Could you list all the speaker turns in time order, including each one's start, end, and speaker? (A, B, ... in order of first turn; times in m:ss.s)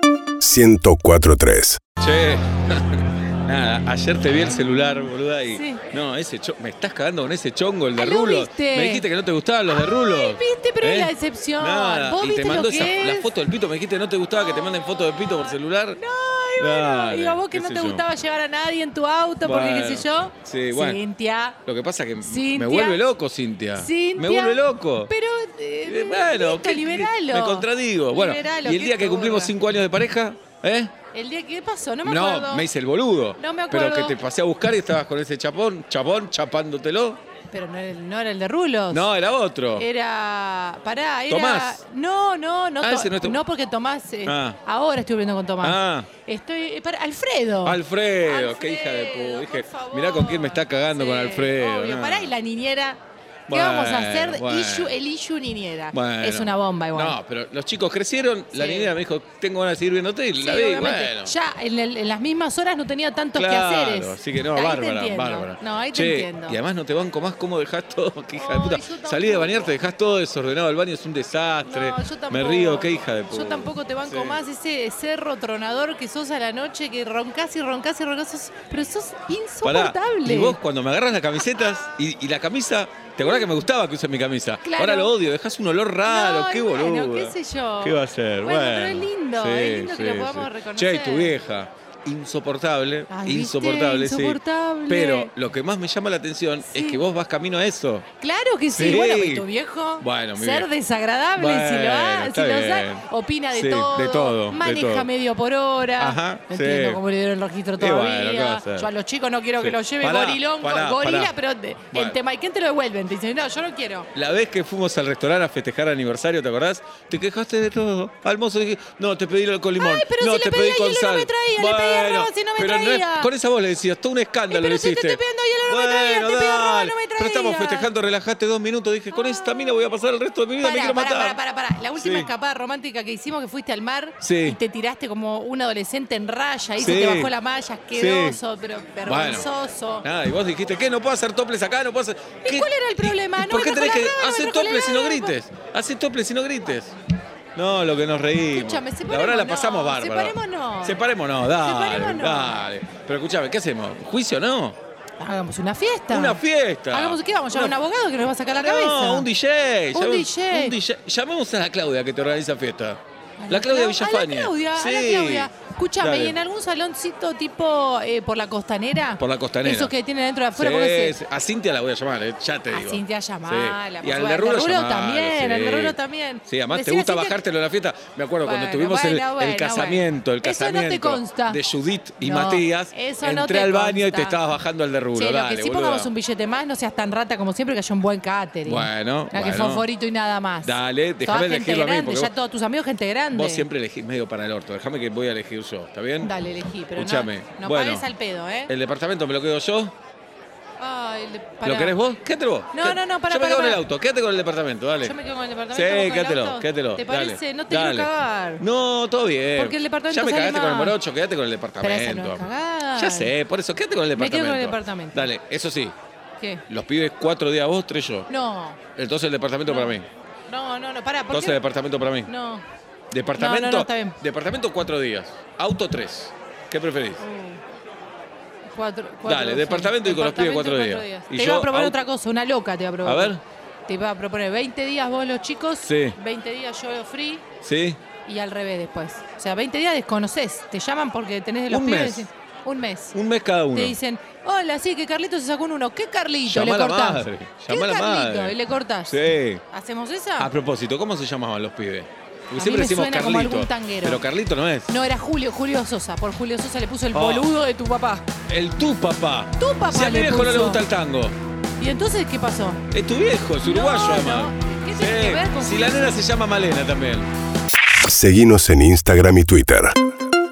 0:00.4-0:01.8 A
0:02.0-0:16.0 B
0:05.5-0:05.8 C
0:08.0-0:09.0 C
0:09.7-0:13.3 C
0:14.4-0:21.6 C
0:16.6-0:18.0 B
0:19.4-0:21.0 B
0:21.6-0:25.1 B
0:22.2-0:23.0 C
0:23.7-0:29.5 C
0:25.8-0:30.9 B
0:31.1-0:32.7 C
0:32.0-0:37.2 B
0:33.4-0:34.2 C
0:37.5-0:39.1 C
0:38.9-0:39.8 B
0:39.7-0:57.2 C
0:41.3-0:41.8 B
0:42.8-0:43.4 B
0:44.2-0:44.6 B
0:45.6-0:46.1 B
0:47.6-0:52.3 B
0:53.5-0:54.9 B
0:55.9-1:01.3 B
0:58.5-0:58.9 C
1:00.4-1:06.6 C
1:03.3-1:14.4 B
1:08.4-1:09.8 C
1:11.6-1:20.6 C
1:19.6-1:38.0 B
1:23.2-1:23.5 C
1:24.6-1:25.1 C
1:26.0-1:31.3 C
1:33.1-1:35.3 C
1:36.6-1:37.0 C
1:38.2-1:54.1 C
1:38.7-1:39.4 B
1:40.0-1:40.7 B
1:41.3-1:45.1 B
1:46.0-1:47.0 B
1:47.8-1:48.9 B
1:49.6-1:51.3 B
1:51.9-1:52.2 B
1:54.1-2:11.4 B
1:59.8-2:03.3 C
2:04.5-2:07.9 C
2:09.1-2:09.8 C
2:10.6-2:20.0 C
2:12.0-2:12.3 B
2:14.2-2:14.6 B
2:16.8-2:17.3 B
2:17.9-2:18.4 B
2:19.0-2:19.5 B
2:20.0-2:26.9 B
2:22.4-2:25.4 C
2:27.6-2:34.8 B
2:28.5-2:31.0 C
2:31.5-2:32.7 C
2:35.2-2:39.3 C
2:36.1-2:37.8 B
2:38.5-2:46.4 B
2:39.9-2:40.8 C
2:43.4-2:51.2 C
2:49.2-2:49.9 B
2:50.5-3:06.1 B
2:52.7-2:57.4 C
2:58.4-3:01.6 C
3:02.2-3:04.4 C
3:05.1-3:13.6 C
3:08.6-3:09.8 B
3:10.6-3:12.3 B
3:13.3-3:16.3 B
3:16.2-3:18.7 C
3:17.0-3:18.0 B
3:18.7-3:19.9 B
3:20.8-3:21.9 C
3:21.6-3:25.1 B
3:22.7-3:23.8 C
3:25.0-3:28.6 C
3:25.7-3:35.9 B
3:29.6-3:31.0 C
3:31.8-3:33.3 C
3:34.1-3:35.3 C
3:36.7-3:38.3 B
3:38.3-3:38.8 C
3:39.0-3:40.1 B
3:39.6-3:40.0 C
3:40.5-3:41.6 C
3:41.3-3:42.3 B
3:42.2-3:42.6 C
3:43.1-3:47.2 B
3:43.3-3:44.2 C
3:47.2-3:47.6 C
3:48.7-3:53.3 C
3:49.2-3:52.0 B
3:53.0-3:53.4 B
3:53.9-3:57.4 C
3:55.8-3:56.2 B
3:57.6-3:58.0 B
3:58.2-4:03.2 C
4:01.7-4:02.3 B
4:03.1-4:04.0 B
4:03.7-4:10.5 C
4:06.4-4:08.6 B
4:09.1-4:09.6 B
4:10.4-4:15.0 B
4:12.5-4:14.2 C
4:14.9-4:18.2 C
4:17.1-4:17.5 B
4:18.5-4:21.3 B
4:19.6-4:20.8 C
4:21.8-4:22.8 C
4:22.9-4:27.3 B
4:23.6-4:26.2 C
4:28.0-4:29.9 A